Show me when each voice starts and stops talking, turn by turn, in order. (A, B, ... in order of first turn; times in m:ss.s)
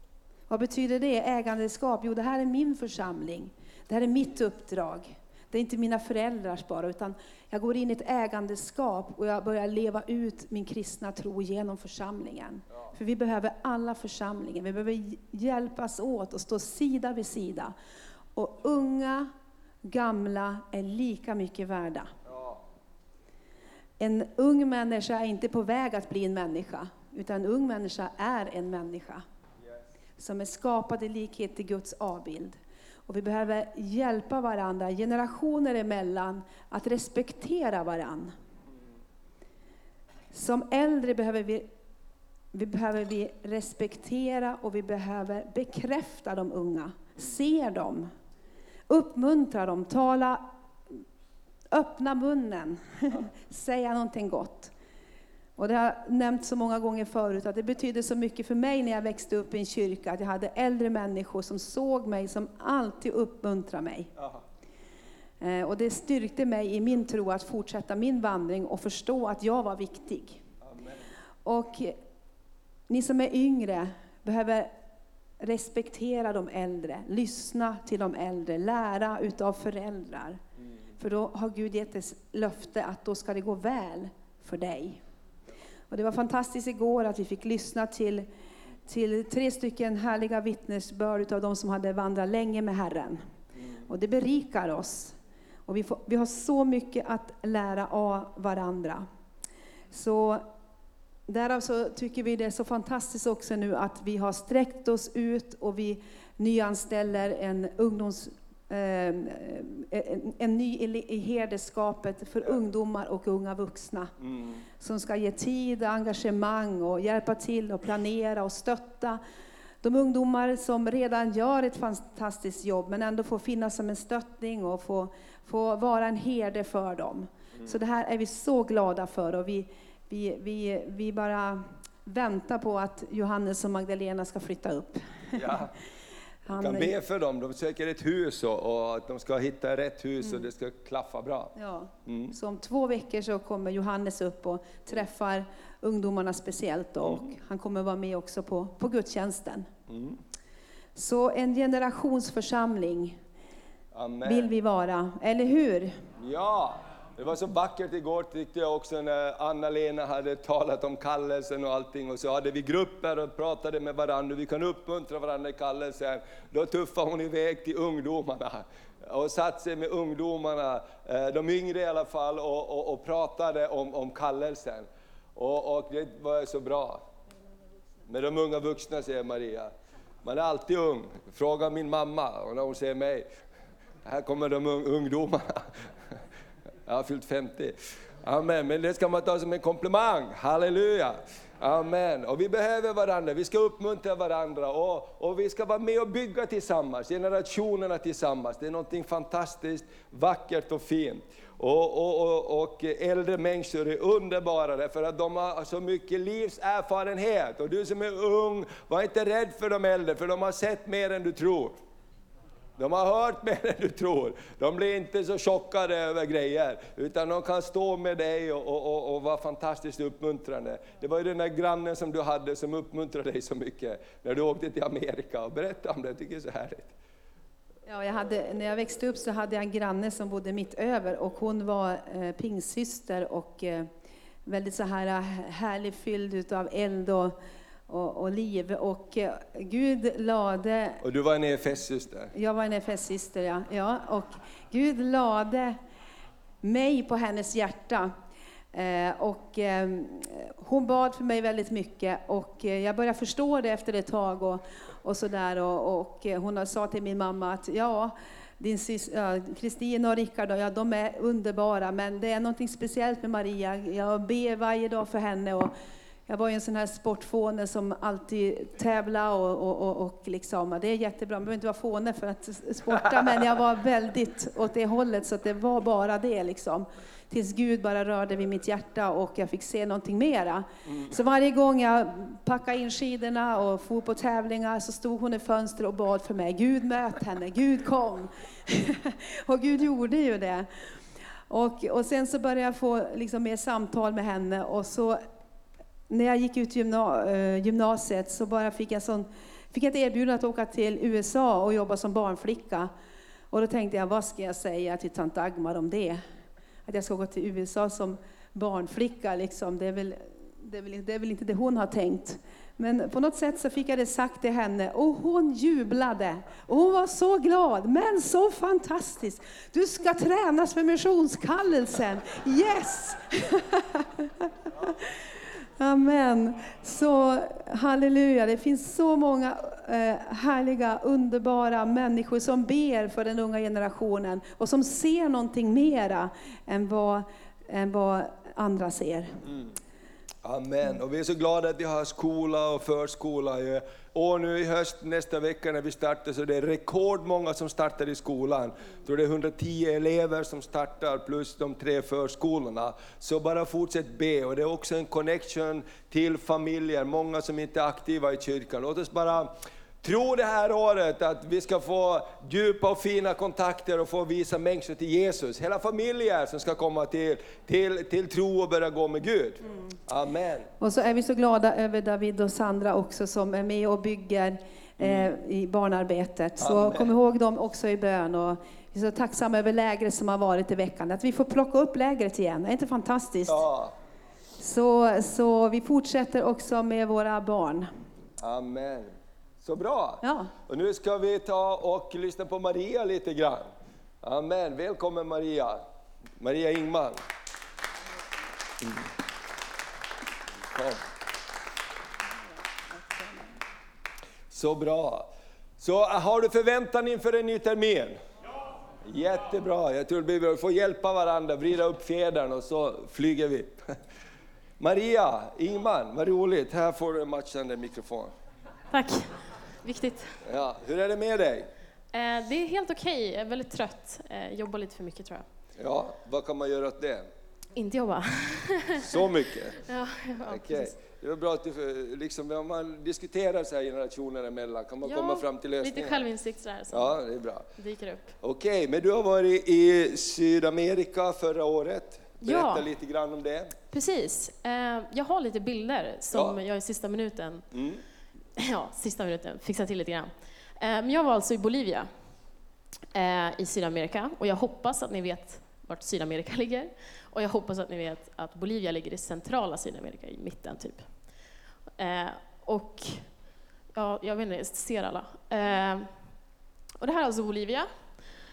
0:00.5-0:17.7 A
0:18.3-0:19.3 A
0:19.8-0:22.1 A
0:22.2-0:22.6 B
0:24.0-0:29.2 A
0:30.2-0:38.3 A
0:40.3-0:41.6 A
0:42.5-0:48.1 A
0:48.9-0:50.4 A
0:51.7-0:54.7 A
0:55.6-1:04.1 A
1:05.4-1:10.4 A
1:10.6-1:11.0 B
1:11.4-1:11.9 A
1:12.9-1:14.7 A
1:15.4-1:20.4 A
1:21.0-1:25.0 A
1:25.9-1:28.2 A
1:28.8-1:33.2 A
1:33.9-1:35.1 A
1:35.6-1:39.0 A
1:39.9-1:40.4 A
1:41.3-1:54.1 A
1:54.2-1:54.6 B
1:54.8-1:59.2 A
1:59.8-2:15.4 A
2:15.3-2:15.7 B
2:16.4-2:16.9 A
2:16.6-2:21.5 B
2:21.6-2:29.7 A
2:22.0-2:22.3 B
2:29.9-2:30.2 B
2:30.9-2:33.2 A
2:33.9-2:34.5 B
2:34.2-2:36.0 A
2:36.2-2:57.0 B
2:58.1-2:59.7 B
3:00.2-3:03.2 B
3:04.0-3:05.7 B
3:06.8-3:31.8 B
3:32.8-3:46.9 B
3:47.9-3:53.9 A
3:54.4-3:57.4 A
3:57.9-4:01.0 A
4:01.0-4:02.3 B
4:02.3-4:05.8 A
4:06.6-4:08.1 A
4:08.7-4:25.7 A
4:26.3-4:50.8 A
4:51.5-4:55.2 A
4:56.1-5:02.9 A
5:03.5-5:06.2 A
5:06.8-5:39.4 A
5:39.4-5:39.7 B
5:40.4-6:10.7 B
6:10.8-6:23.6 A
6:15.0-6:15.3 B
6:16.6-6:17.1 B
6:23.5-6:23.9 B
6:24.6-6:27.9 A
6:28.4-6:29.1 B
6:29.6-6:33.7 B
6:30.2-6:30.5 A
6:34.2-6:35.8 B
6:36.4-6:37.2 B
6:40.7-6:41.0 B
6:42.8-6:43.6 A
6:44.5-6:48.2 B
6:49.0-6:54.0 B
6:54.8-6:58.3 B
6:58.9-7:00.4 C
7:00.4-7:01.7 B
7:02.1-7:05.4 C
7:05.8-7:07.3 B
7:07.7-7:09.0 C
7:09.0-7:09.8 B
7:09.8-7:10.9 C
7:10.4-7:16.2 B
7:15.0-7:17.1 C
7:16.9-7:17.6 B
7:17.8-7:18.3 C
7:18.4-7:23.7 B
7:22.4-7:22.9 C
7:23.9-7:27.7 C
7:27.7-7:28.0 B
7:28.6-7:32.1 C
7:33.1-7:41.1 C
7:42.0-7:43.3 C
7:43.9-7:46.1 C
7:47.0-7:47.9 C